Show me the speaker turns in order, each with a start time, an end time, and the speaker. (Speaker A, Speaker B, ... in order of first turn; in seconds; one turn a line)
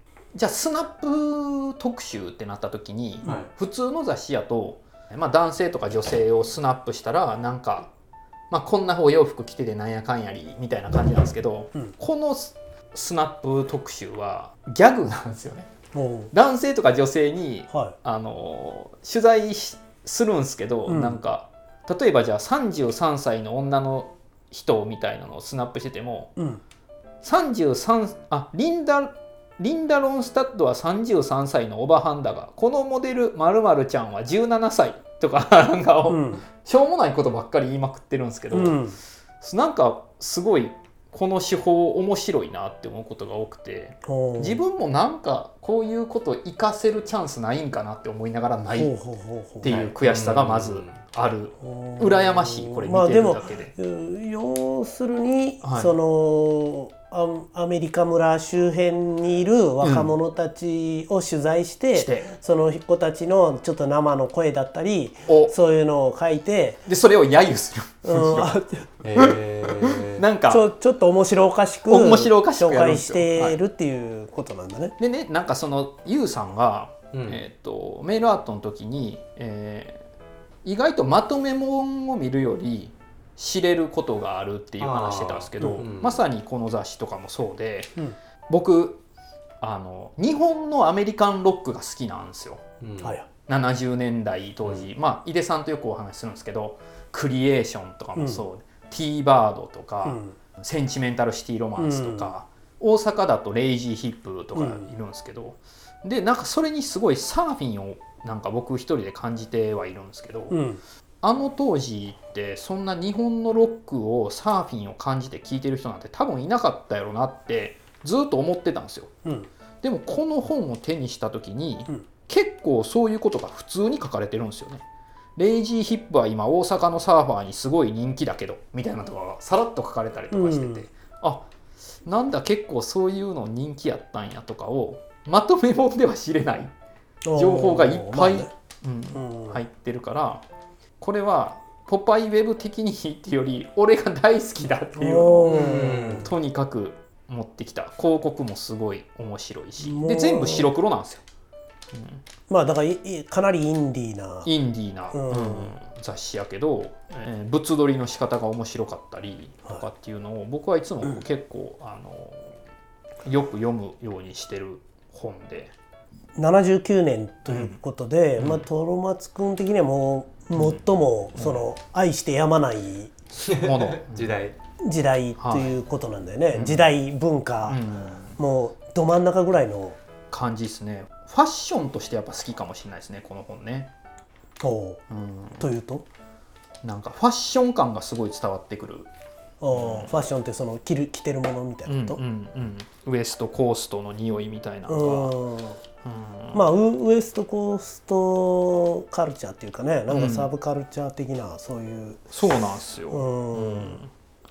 Speaker A: 0.3-7.9
Speaker B: 3.2-3.5
Speaker A: 8.5-15.7
Speaker C: 15.9-16.3
Speaker A: 16.3-26.3
Speaker C: 17.7-18.0
Speaker C: 20.9-21.2
Speaker C: 26.4-26.6
Speaker A: 27.2-38.8
Speaker C: 36.1-36.4
Speaker C: 38.5-39.0
Speaker A: 39.4-48.9
Speaker C: 44.0-44.6
Speaker C: 48.7-49.8
Speaker A: 49.6-53.7
Speaker B: 49.6-51.0
Speaker C: 51.6-66.8
Speaker A: 55.6-56.0
Speaker A: 59.8-60.1
Speaker A: 61.9-62.3
Speaker A: 65.3-65.5
Speaker A: 66.9-68.6
Speaker C: 68.0-68.9
Speaker B: 69.0-70.2
Speaker A: 69.1-70.7
Speaker C: 70.5-75.0
Speaker A: 71.9-73.6
Speaker A: 75.0-80.0
Speaker B: 77.1-77.5
Speaker A: 80.6-88.0
Speaker B: 84.8-86.2
Speaker A: 88.5-89.0
Speaker A: 89.6-92.6
Speaker B: 92.8-93.2
Speaker C: 93.0-93.3
Speaker A: 93.5-110.6
Speaker C: 98.2-98.4
Speaker C: 100.1-100.3
Speaker C: 101.8-102.3
Speaker C: 104.5-104.9
Speaker C: 110.5-110.8
Speaker A: 111.2-119.1
Speaker A: 119.8-124.8
Speaker A: 125.4-131.5
Speaker C: 130.3-130.9
Speaker A: 132.1-136.7
Speaker C: 137.2-138.5
Speaker A: 137.3-140.4
Speaker C: 139.2-139.6
Speaker A: 141.0-151.2
Speaker C: 144.9-146.3
Speaker B: 145.5-146.3
Speaker C: 149.8-150.7
Speaker A: 151.9-152.2
Speaker C: 152.5-154.5
Speaker A: 154.4-162.6
Speaker C: 155.1-155.7
Speaker A: 163.2-165.7
Speaker C: 166.4-173.1
Speaker A: 167.5-167.8
Speaker A: 168.4-168.7
Speaker A: 170.5-170.8
Speaker A: 171.3-171.7
Speaker A: 173.4-174.4
Speaker B: 173.5-174.6
Speaker C: 174.8-177.8
Speaker A: 175.4-175.8
Speaker A: 176.5-176.9
Speaker A: 177.6-178.4
Speaker C: 178.3-180.0
Speaker A: 180.3-183.9
Speaker C: 184.6-185.0
Speaker A: 185.1-185.7
Speaker C: 185.6-186.1
Speaker A: 186.8-189.1
Speaker C: 189.6-192.2
Speaker A: 189.7-190.2
Speaker A: 191.9-195.4
Speaker C: 194.9-195.8
Speaker A: 196.0-196.7
Speaker C: 196.5-202.2
Speaker A: 200.1-200.5
Speaker A: 202.3-204.1
Speaker C: 203.1-204.0